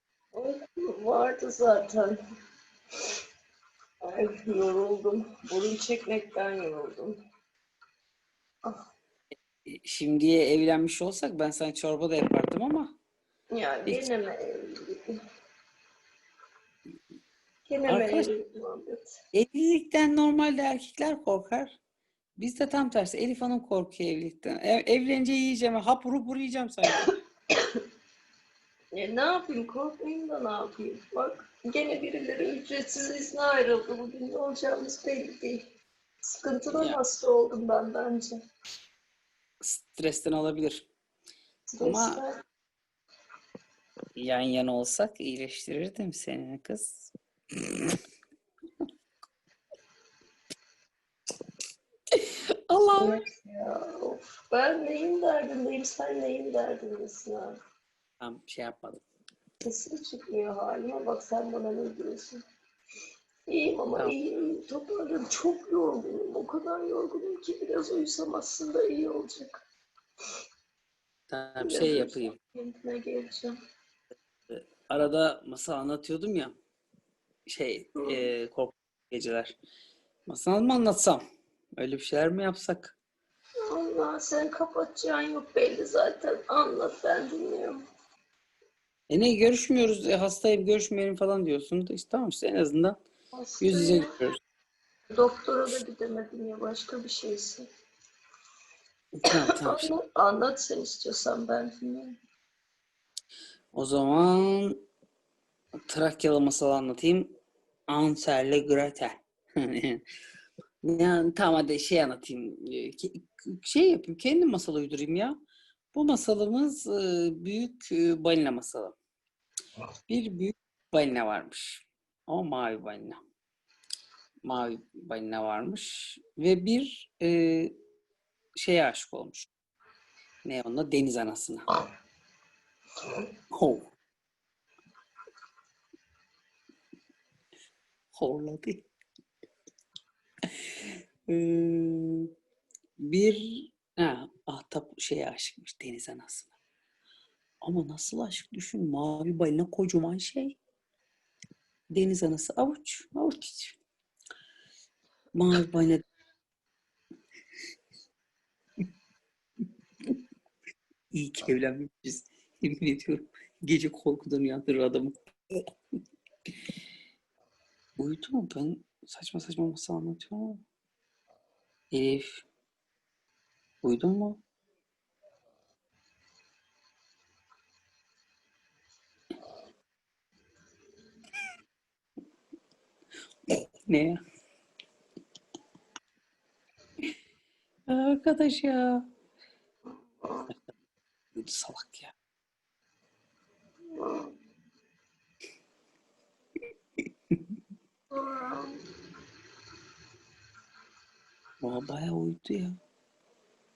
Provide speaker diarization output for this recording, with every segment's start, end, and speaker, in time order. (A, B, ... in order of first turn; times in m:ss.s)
0:00.3-0:02.2 A
0:04.0-0:07.2 A
0:09.7-0:12.9 B
0:13.5-0:15.2 A
0:17.7-0:19.2 A
0:17.9-0:18.3 B
0:19.3-0:21.8 B
0:22.4-0:27.0 B
0:28.9-0:35.7 A
0:36.2-0:38.3 A
0:39.6-0:40.9 B
0:41.7-0:42.4 A
0:41.8-0:42.2 B
0:44.2-0:48.0 B
0:52.1-0:53.2 B
0:53.0-0:57.6 A
0:58.2-0:59.0 B
0:59.6-1:02.4 A
1:03.5-1:09.6 A
1:11.3-1:12.4 B
1:11.6-1:13.5 A
1:14.5-1:16.6 B
1:17.5-1:19.6 B
1:18.0-1:18.3 A
1:20.3-1:21.2 B
1:21.8-1:23.0 B
1:23.7-1:27.8 A
1:29.1-1:33.0 B
1:33.4-1:34.1 A
1:33.6-1:34.4 B
1:35.1-1:37.7 A
1:39.2-1:39.9 B
1:39.3-1:42.2 A
1:43.7-1:44.8 B
1:45.9-1:47.3 B
1:47.9-1:50.0 B
1:50.8-1:55.3 B
1:55.9-1:59.0 B
2:00.1-2:03.2 B
2:04.4-2:07.7 B
2:08.6-2:09.5 B
2:10.4-2:11.7 B
2:13.5-2:13.9 B
2:18.1-2:18.9 B
2:20.5-2:22.3 B
2:23.0-2:26.5 B
2:27.6-2:30.6 B
2:31.9-2:33.8 B
2:35.3-2:36.0 B
2:41.1-2:45.7 B
2:48.0-2:50.6 B
2:51.9-2:52.5 B
2:53.8-2:54.4 B
3:03.5-3:04.2 B
3:07.9-3:09.0 B
3:10.1-3:10.5 A
3:11.3-3:12.1 B
3:13.9-3:14.3 A
3:18.1-3:18.8 A
3:21.6-3:22.8 B